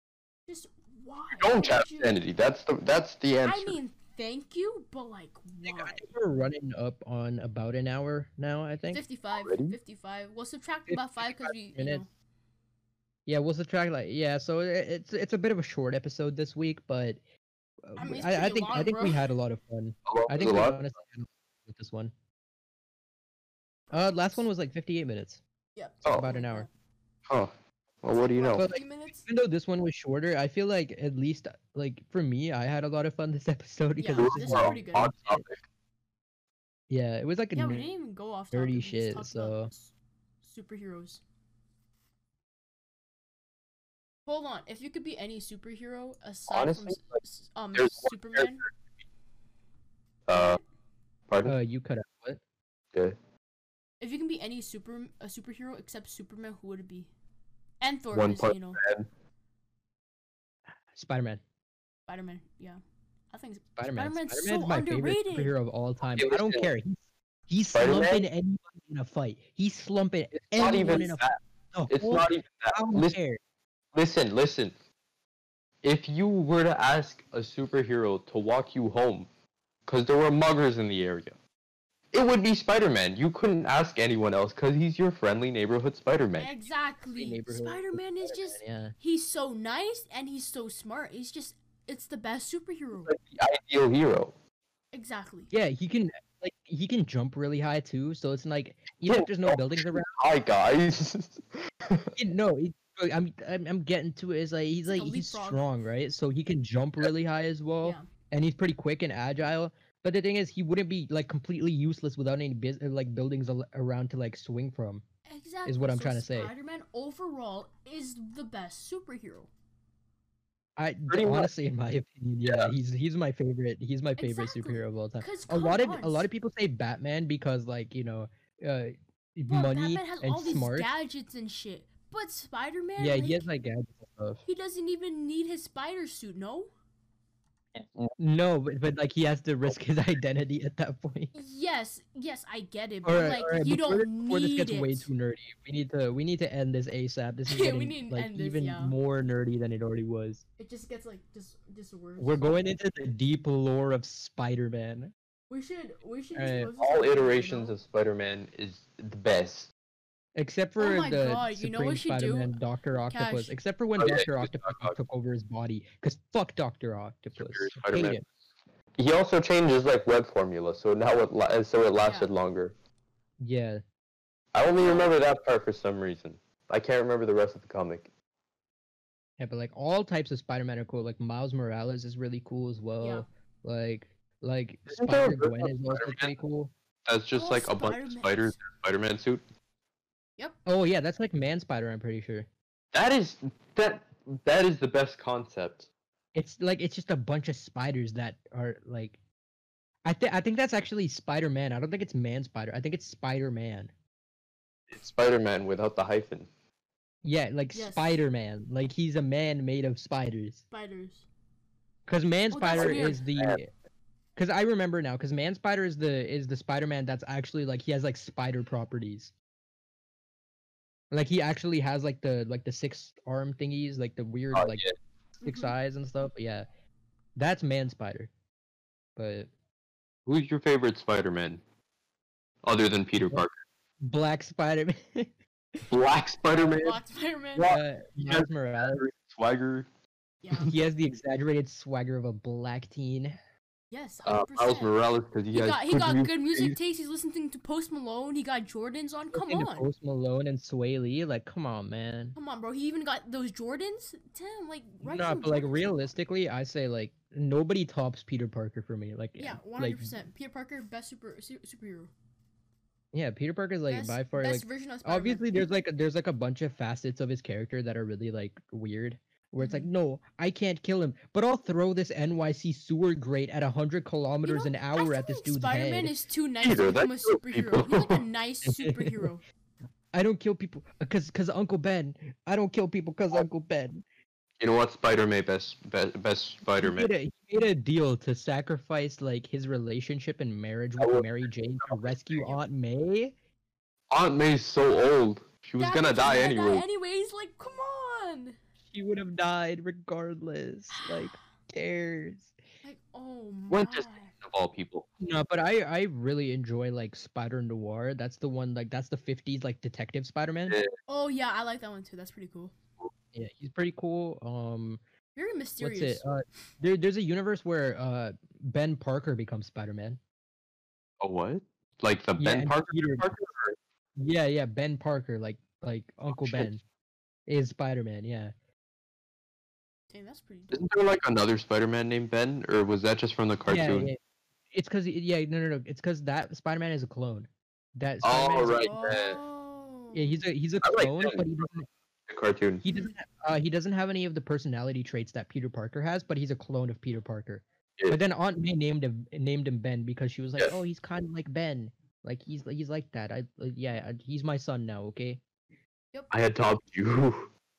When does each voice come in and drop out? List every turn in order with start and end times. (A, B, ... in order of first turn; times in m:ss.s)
0:00.5-0:02.2 A
0:01.3-0:03.8 B
0:03.4-0:06.0 A
0:05.6-0:09.0 C
0:08.9-0:12.1 A
0:09.3-0:09.8 B
0:10.9-0:12.0 C
0:13.3-0:17.2 C
0:17.9-0:22.1 C
0:18.0-0:19.3 A
0:20.1-0:20.8 B
0:23.9-0:25.4 C
0:23.9-0:24.4 A
0:25.8-0:26.7 A
0:26.0-0:26.7 C
0:27.3-0:28.7 B
0:28.2-0:29.2 A
0:28.6-0:35.4 C
0:34.0-0:35.2 A
0:34.2-0:35.6 B
0:36.9-0:37.9 C
0:37.6-0:41.2 A
0:38.5-0:39.7 C
0:44.3-0:48.7 A
0:46.5-0:47.2 B
0:47.7-0:48.6 B
0:50.3-0:50.6 B
0:50.3-0:50.6 A
0:51.3-0:51.6 B
0:51.4-0:52.4 C
0:54.0-0:57.1 A
0:57.8-0:58.8 A
0:58.1-0:59.1 B
1:01.0-1:01.4 C
1:02.1-1:02.8 A
1:03.3-1:05.5 A
1:03.8-1:13.4 C
1:06.1-1:06.7 B
1:07.7-1:08.3 B
1:10.3-1:13.2 B
1:10.6-1:11.2 A
1:13.9-1:14.8 B
1:15.8-1:19.3 B
1:19.9-1:21.4 B
1:22.1-1:26.5 B
1:26.4-1:33.1 A
1:27.2-1:29.0 C
1:33.0-1:34.3 B
1:34.9-1:35.5 A
1:35.5-1:40.1 C
1:39.0-1:42.2 B
1:42.2-1:55.0 C
1:44.9-1:45.6 A
1:55.3-1:59.5 A
1:55.7-1:56.5 C
2:00.8-2:10.9 C
2:01.1-2:01.5 B
2:02.4-2:02.7 B
2:04.2-2:06.3 A
2:09.5-2:13.5 A
2:13.0-2:14.4 C
2:14.5-2:16.7 A
2:17.8-2:18.2 B
2:18.2-2:21.3 C
2:21.3-2:25.1 A
2:23.0-2:30.4 C
2:27.5-2:29.0 A
2:30.6-2:32.5 A
2:32.2-2:35.1 C
2:35.5-2:37.8 A
2:36.4-2:36.7 C
2:36.8-2:39.7 B
2:40.4-2:48.2 C
2:40.8-2:42.6 A
2:43.1-2:43.6 A
2:44.0-2:45.0 B
2:47.4-2:48.3 B
2:49.0-2:52.7 B
2:52.0-2:52.3 A
2:53.4-2:53.8 C
2:54.5-2:58.1 B
2:54.8-2:55.1 C
2:59.4-3:06.7 C
3:03.0-3:03.3 A
3:04.9-3:06.3 B
3:07.1-3:09.4 B
3:07.4-3:08.6 A
3:10.7-3:12.5 C
3:12.9-3:15.9 B
3:16.4-3:19.2 C
3:20.0-3:23.9 C
3:24.9-3:26.5 B
3:27.2-3:30.6 C
3:27.7-3:28.2 A
3:30.7-3:31.3 A
3:32.1-3:33.7 C
3:32.5-3:33.2 A
3:32.7-3:33.6 B
3:34.4-3:39.3 C
3:41.1-3:44.8 C
3:44.5-3:45.0 B
3:45.4-3:45.7 A
3:45.4-3:46.7 C
3:47.4-3:48.3 C
3:49.2-3:49.5 C
3:50.3-3:51.6 B
3:52.6-3:53.6 B
3:54.0-3:55.3 C
3:55.9-3:57.0 B
3:56.5-3:57.7 A
3:57.6-3:59.9 B
3:57.6-3:59.0 C
4:00.4-4:00.7 A
4:00.5-4:03.4 C
4:03.9-4:04.9 A
4:04.2-4:06.8 B
4:05.5-4:09.9 A
4:09.3-4:12.4 C
4:12.4-4:16.1 A
4:15.0-4:20.1 C
4:19.4-4:22.1 A
4:23.1-4:36.1 C
4:23.9-4:25.4 A
4:29.6-4:29.9 A
4:34.4-4:39.4 A
4:36.6-4:38.2 B
4:38.7-4:39.2 C
4:40.1-4:44.0 C
4:44.6-4:47.1 B
4:46.8-4:53.3 C
4:51.0-4:51.2 B
4:51.8-4:52.1 B
4:54.1-4:56.9 B
4:55.8-4:58.6 A
4:58.9-5:02.5 C
5:00.9-5:01.3 A
5:02.8-5:04.3 A
5:03.7-5:05.1 B
5:05.2-5:10.8 C
5:11.1-5:12.8 A
5:13.3-5:15.0 C
5:15.4-5:16.2 A
5:15.8-5:20.2 C
5:21.2-5:23.8 B
5:22.4-5:23.3 C
5:24.2-5:26.8 C
5:26.3-5:26.7 B
5:27.5-5:28.5 C
5:30.1-5:30.8 A
5:30.7-5:34.1 B
5:33.6-5:34.2 C
5:34.7-5:38.9 C
5:38.2-5:39.4 B
5:38.6-5:40.4 A
5:40.1-5:41.9 C
5:40.8-5:41.6 B
5:42.3-5:42.8 B
5:42.8-5:55.4 C
5:56.3-5:57.5 B